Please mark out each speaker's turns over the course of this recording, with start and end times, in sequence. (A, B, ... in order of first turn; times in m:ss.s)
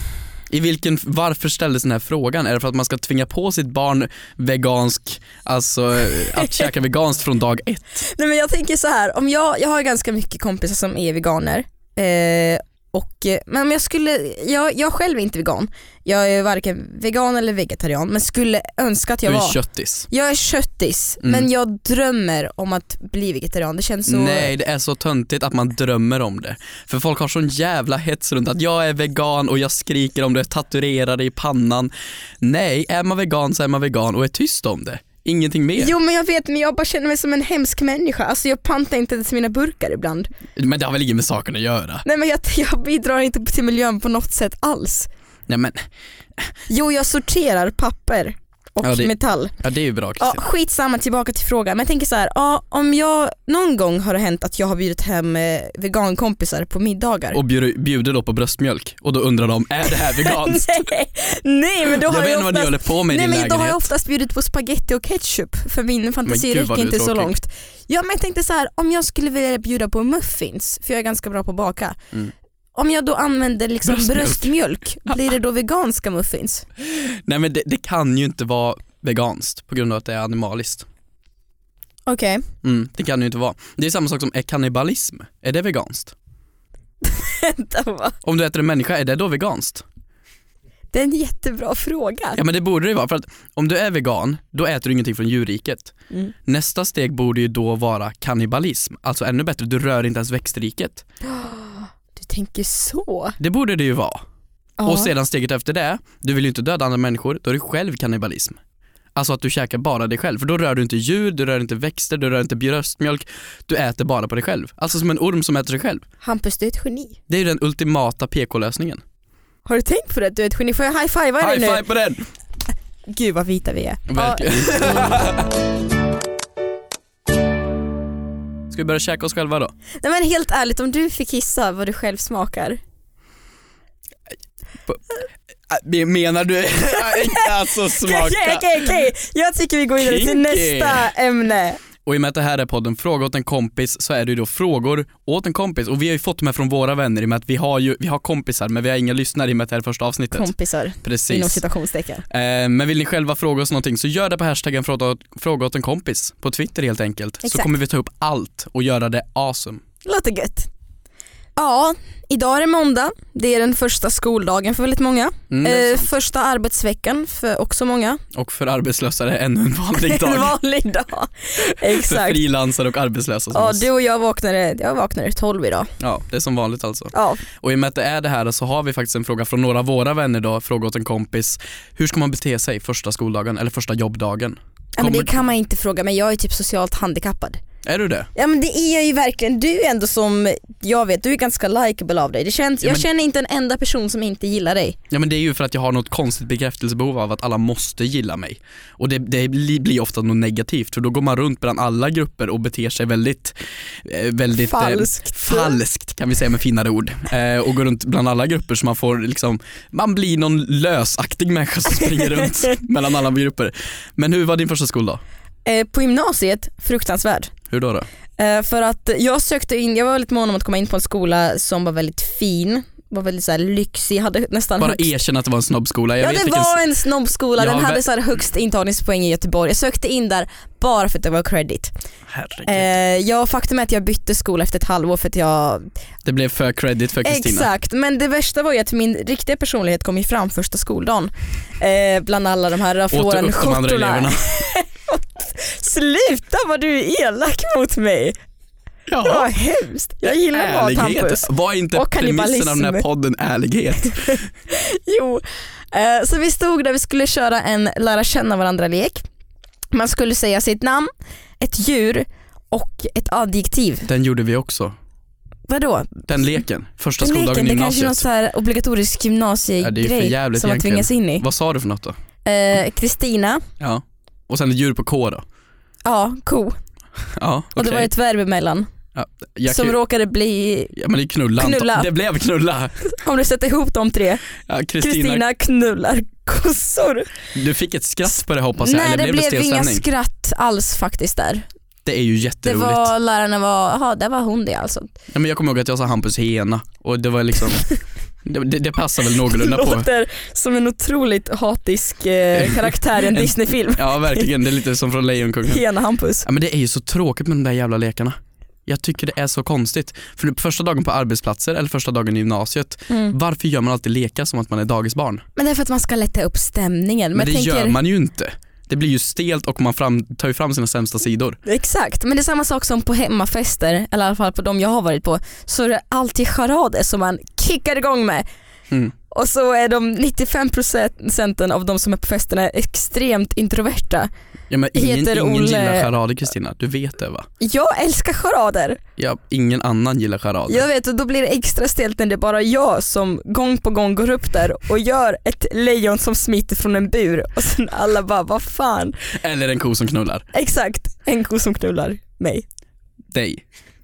0:00.5-0:08.0 A
0:06.4-0:06.7 B
0:08.0-0:19.6 B
0:19.2-0:20.1 A
0:20.1-0:24.5 B
0:21.2-0:21.5 A
0:24.1-0:35.9 A
0:35.8-0:40.3 B
0:40.6-0:42.0 A
0:42.0-0:45.1 B
0:45.5-0:45.8 A
0:46.7-0:49.6 B
0:48.8-0:50.4 A
0:50.2-0:57.4 B
0:57.3-1:00.9 A
0:59.9-1:12.0 B
1:02.0-1:03.9 A
1:06.3-1:07.3 A
1:12.8-1:16.6 B
1:13.8-1:14.5 A
1:16.8-1:20.9 A
1:22.1-1:22.4 B
1:22.6-1:26.1 A
1:27.0-1:28.2 B
1:28.2-1:29.8 A
1:30.9-1:32.4 B
1:32.4-1:35.9 A
1:36.5-1:41.0 A
1:41.2-1:43.4 B
1:43.4-1:44.2 A
1:44.8-1:45.1 B
1:44.8-1:48.6 A
1:49.2-1:56.0 A
1:56.2-1:57.2 B
1:57.3-1:59.0 A
1:59.6-2:01.8 B
2:01.4-2:02.3 A
2:03.1-2:05.1 B
2:04.1-2:05.5 A
2:08.7-2:09.7 A
2:10.0-2:12.8 B
2:15.7-2:19.1 A
2:17.0-2:21.8 B
2:20.0-2:21.1 A
2:22.0-2:30.5 A
2:30.3-2:32.3 B
2:31.0-2:31.6 A
2:32.3-2:39.8 A
2:37.4-2:37.7 B
2:40.0-2:40.7 B
2:41.6-2:48.2 B
2:45.5-2:46.1 A
2:48.4-2:50.6 A
2:50.0-2:52.4 B
2:51.6-2:53.9 A
2:53.5-2:55.9 B
2:56.0-3:05.4 A
2:57.1-2:57.4 B
3:05.0-3:07.6 B
3:07.8-3:08.3 A
3:08.4-3:15.0 B
3:15.1-3:35.2 A
3:24.6-3:25.8 B
3:35.6-3:37.5 B
3:37.7-3:38.1 A
3:38.4-3:45.1 B
3:44.8-3:46.8 A
3:46.2-3:51.9 B
3:47.6-3:48.1 A
3:52.3-3:52.9 A
3:52.6-3:55.8 B
3:56.2-3:57.7 A
3:57.2-4:08.4 B
4:03.1-4:04.4 A
4:09.1-4:09.5 A
4:09.2-4:13.0 B
4:10.2-4:14.4 A
4:14.0-4:19.2 B
4:19.9-4:24.1 B
4:24.1-4:25.0 A
4:25.7-4:26.5 B
4:26.3-4:28.2 A
4:27.2-4:31.4 B
4:29.8-4:32.2 A
4:32.4-4:33.6 B
4:33.8-4:35.4 A
4:36.0-4:36.8 B
4:37.4-4:38.1 A
4:37.8-4:38.9 B
4:39.2-4:40.0 A
4:39.7-4:41.0 B
4:41.0-4:43.0 A
4:41.6-4:42.1 B
4:43.1-4:44.4 B
4:44.7-4:45.4 A
4:45.0-4:47.4 B
4:47.5-4:50.0 A
4:48.8-4:51.6 B
4:52.0-4:53.1 A
4:52.6-4:55.1 B
4:55.3-4:57.9 A
4:58.4-5:00.1 A
4:59.3-5:04.5 B
5:02.6-5:05.8 A
5:05.6-5:06.5 B
5:06.4-5:15.4 A
5:13.1-5:13.4 B
5:15.6-5:18.0 B
5:17.4-5:21.6 A
5:21.7-5:28.4 B
5:29.3-5:34.3 B
5:34.7-5:37.5 A
5:34.9-5:36.1 B
5:37.6-5:39.0 B
5:39.2-5:40.8 A
5:40.7-5:49.2 B
5:49.3-5:50.4 A
5:50.5-5:52.6 B
5:53.3-5:53.6 A